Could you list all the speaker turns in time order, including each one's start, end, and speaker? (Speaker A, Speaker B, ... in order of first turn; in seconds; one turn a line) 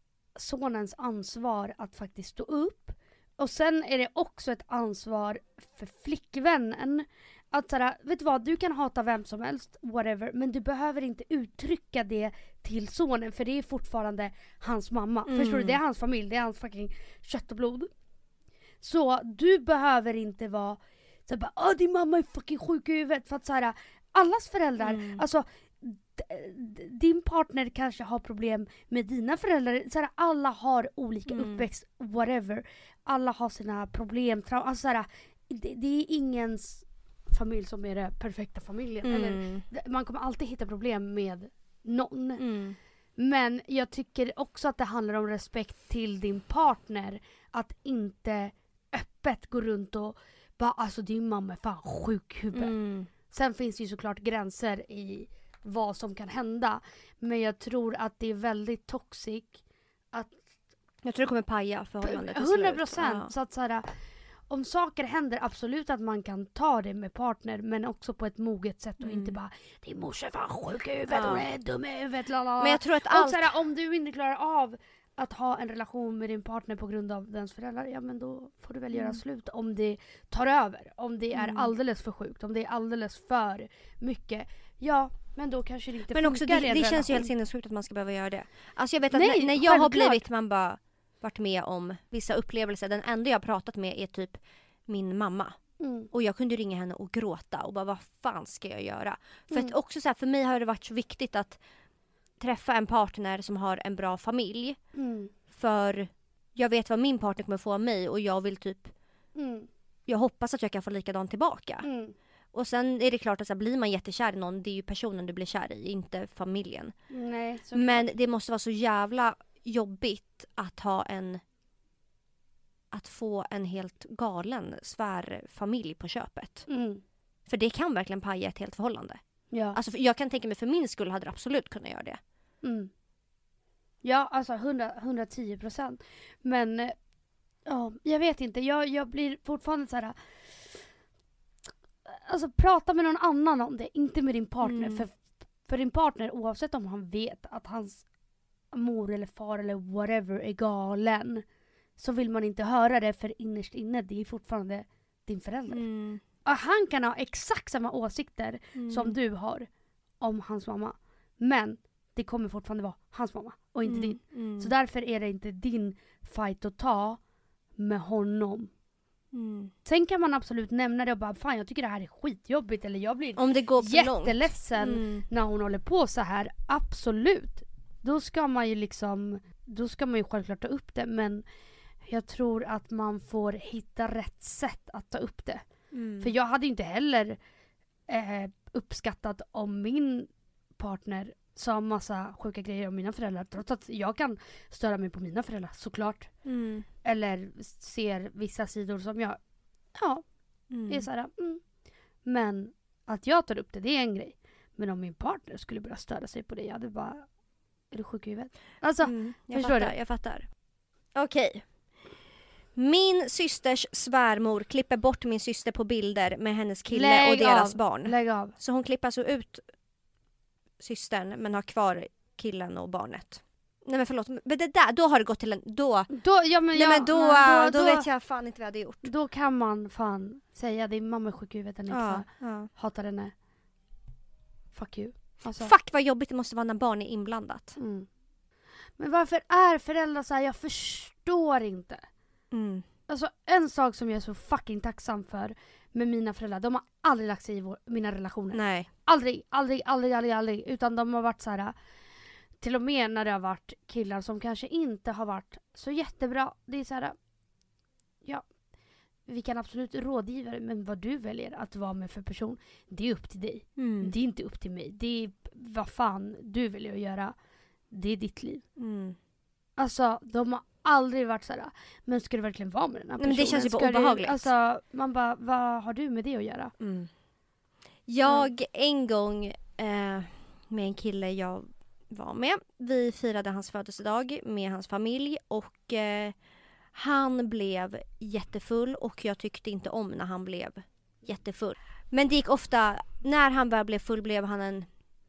Speaker A: 0.3-17.9
Speaker B: 15.3-15.8
Speaker A: 18.8-42.4
Speaker B: 24.8-25.2
Speaker B: 31.3-31.6
Speaker B: 39.0-39.6
Speaker B: 42.4-42.8
Speaker A: 43.2-52.7
Speaker B: 52.5-53.1
Speaker A: 53.3-59.6
Speaker A: 60.1-60.4
Speaker B: 61.0-63.3
Speaker A: 62.0-63.8
Speaker A: 64.5-87.3
Speaker B: 69.0-69.3
Speaker B: 71.1-71.5
Speaker B: 72.6-73.5
Speaker B: 78.9-79.2
Speaker B: 81.3-81.7
Speaker B: 86.1-95.5
Speaker A: 89.1-90.2
Speaker A: 95.8-96.1
Speaker B: 96.1-101.6
Speaker B: 102.4-104.8
Speaker A: 104.9-105.3
Speaker B: 105.5-108.9
Speaker A: 109.3-109.7
Speaker B: 110.1-111.8
Speaker A: 111.8-112.1
Speaker B: 112.5-116.9
Speaker A: 117.1-118.1
Speaker B: 117.7-121.4
Speaker B: 122.9-126.6
Speaker A: 126.7-127.0
Speaker B: 127.5-129.2
Speaker A: 129.5-129.8
Speaker B: 129.7-132.2
Speaker A: 132.6-132.9
Speaker A: 134.0-136.9
Speaker A: 137.7-140.8
Speaker A: 142.1-145.1
Speaker B: 144.6-145.0
Speaker A: 145.7-148.0
Speaker A: 148.7-151.4
Speaker A: 152.0-155.8
Speaker B: 155.7-156.2
Speaker A: 156.4-159.7
Speaker B: 158.8-159.2
Speaker A: 160.2-167.2
Speaker B: 163.8-164.7
Speaker A: 167.8-168.7
Speaker B: 169.3-169.7
Speaker A: 169.8-181.4
Speaker B: 173.3-175.2
Speaker A: 182.0-185.6
Speaker B: 185.9-186.3
Speaker A: 186.2-187.4
Speaker A: 188.1-196.3
Speaker B: 196.4-196.9
Speaker A: 197.0-199.4
Speaker A: 199.9-200.2
Speaker B: 200.7-201.1
Speaker A: 200.9-201.6
Speaker A: 202.2-207.3
Speaker A: 207.9-209.9
Speaker B: 209.0-210.5
Speaker B: 211.1-211.7
Speaker B: 212.7-219.6
Speaker A: 216.9-218.5
Speaker B: 220.8-226.1
Speaker A: 226.1-228.1
Speaker B: 226.7-229.1
Speaker A: 229.0-233.3
Speaker B: 231.9-232.7
Speaker A: 234.7-235.7
Speaker B: 235.6-237.8
Speaker A: 237.8-238.1
Speaker A: 239.0-242.0
Speaker B: 242.5-242.8
Speaker A: 243.1-251.7
Speaker B: 248.5-248.9
Speaker A: 252.6-257.1
Speaker A: 259.2-267.3
Speaker B: 263.8-264.1
Speaker A: 267.9-268.6
Speaker B: 268.8-269.2
Speaker A: 269.8-276.7
Speaker B: 273.2-274.5
Speaker B: 276.8-277.1
Speaker B: 278.1-286.4
Speaker B: 286.9-294.9